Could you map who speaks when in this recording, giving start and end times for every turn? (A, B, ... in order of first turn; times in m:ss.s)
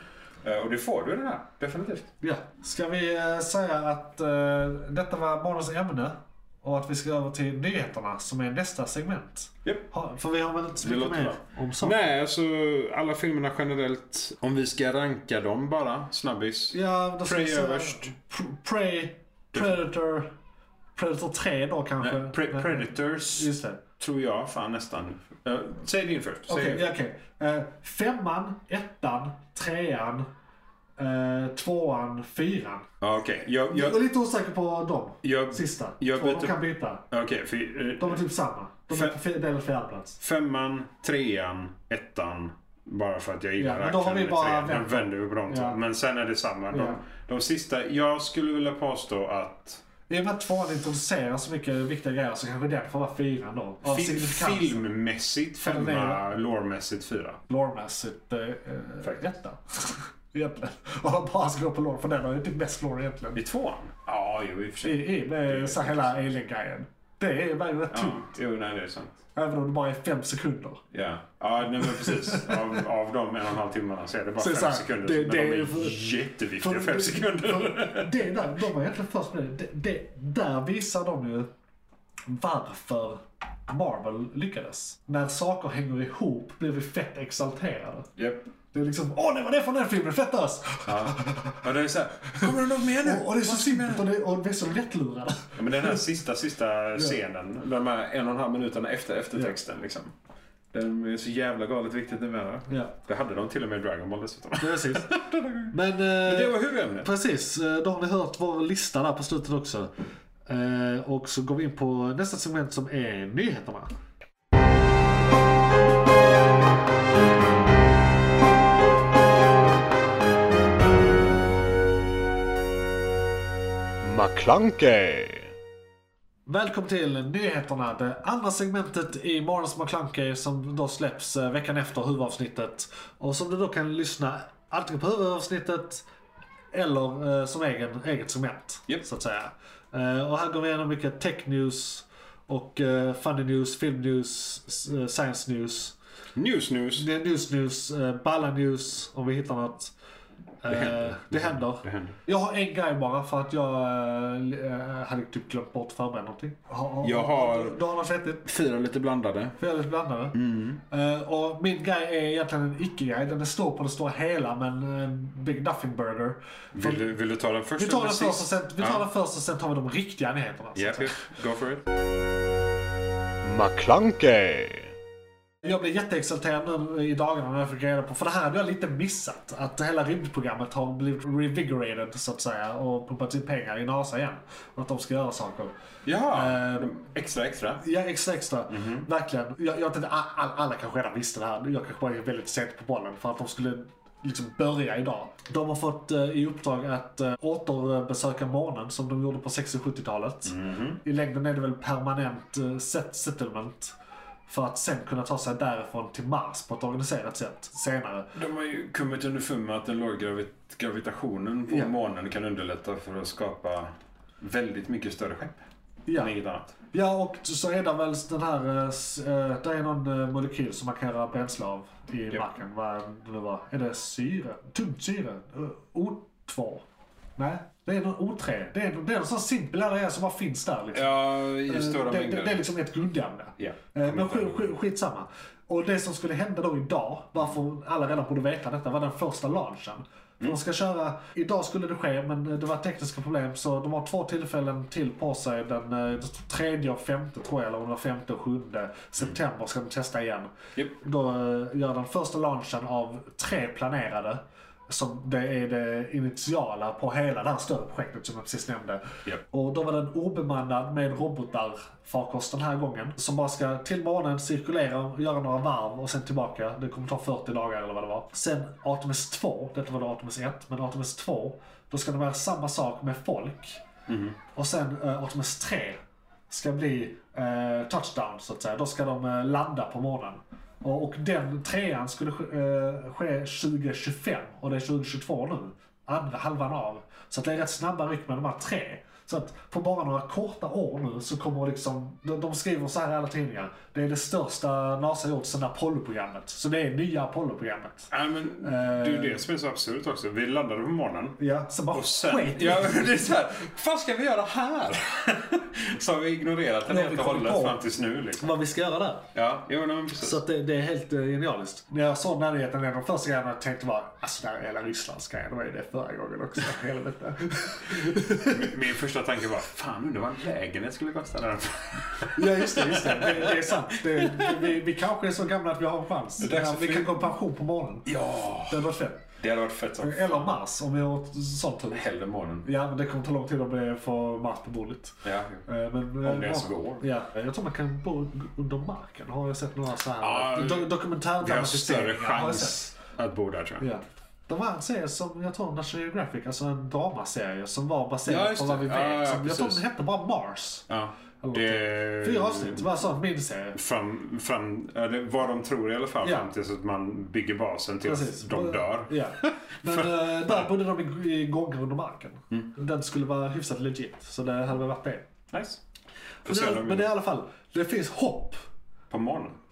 0:00.4-0:02.1 A
0:02.2-0:12.0 B
0:10.8-0:18.1 A
0:16.7-0:20.3 B
0:19.5-0:19.8 A
0:21.0-0:23.8 B
0:22.0-0:26.9 A
0:26.5-0:30.3 B
0:31.0-0:32.9 B
0:33.0-0:34.0 A
0:33.7-0:37.0 B
0:35.2-0:36.6 A
0:37.1-0:38.2 A
0:38.0-0:40.2 B
0:38.9-0:39.2 A
0:40.2-0:49.8 A
0:43.6-0:45.8 B
0:46.7-0:47.0 B
0:50.1-0:54.8 B
0:53.8-0:57.4 A
0:55.6-0:56.2 B
0:57.5-1:03.4 B
1:03.3-1:06.2 A
1:04.8-1:08.3 B
1:07.9-1:09.2 A
1:09.3-1:10.8 B
1:10.9-1:18.4 A
1:11.8-1:12.8 B
1:14.4-1:21.5 B
1:22.3-1:28.1 B
1:28.2-1:28.5 A
1:28.7-1:31.6 B
1:30.8-1:34.1 A
1:32.4-1:36.0 B
1:35.6-1:40.1 A
1:40.7-1:47.1 A
1:42.7-1:42.9 B
1:44.6-1:49.9 B
1:50.5-1:53.9 B
2:04.0-2:05.5 C
2:06.4-2:16.0 B
2:16.7-2:26.0 B
2:26.4-2:27.1 A
2:27.0-2:29.9 B
2:30.6-2:38.4 B
2:30.7-2:32.2 A
2:37.0-2:37.8 A
2:38.4-2:39.6 A
2:39.6-2:40.4 B
2:40.3-2:40.8 A
2:40.9-2:47.1 B
2:46.7-2:49.1 A
2:47.8-2:51.2 B
2:50.7-2:51.8 A
2:53.4-2:54.9 C
2:55.6-3:05.7 B
3:06.0-3:07.8 A
3:06.3-3:07.0 B
3:07.8-3:23.9 B
3:08.7-3:09.1 A
3:20.4-3:21.0 A
3:24.5-3:28.3 B
3:28.3-3:36.7 A
3:36.1-3:36.3 B
3:36.9-3:46.8 B
3:47.4-4:33.8 B
3:50.9-3:52.6 A
3:53.6-3:54.7 A
4:34.1-4:34.4 A
4:34.5-4:58.1 B
4:58.1-5:01.4 A
4:58.6-4:59.4 B
5:01.4-5:03.2 B
5:01.9-5:08.5 A
5:06.8-5:07.8 B
5:08.4-5:09.3 B
5:09.3-5:10.4 A
5:10.2-5:18.7 B
5:18.4-5:24.7 A
5:22.3-5:28.1 B
5:26.4-5:27.3 A
5:28.0-5:28.9 A
5:28.6-5:29.3 B
5:29.4-5:30.6 A
5:30.0-5:32.0 B
5:31.9-5:32.7 A
5:32.6-5:42.9 B
5:35.2-5:35.6 A
5:36.2-5:37.0 A
5:40.2-5:43.8 A
5:43.8-5:50.9 B
5:48.2-5:49.8 A
5:50.9-5:53.0 A
5:51.4-5:53.8 B
5:53.7-6:00.6 A
5:56.2-5:56.5 B
5:58.0-6:05.3 B
6:05.5-6:05.8 A
6:06.4-6:07.1 A
6:06.4-6:08.6 B
6:09.1-6:09.6 A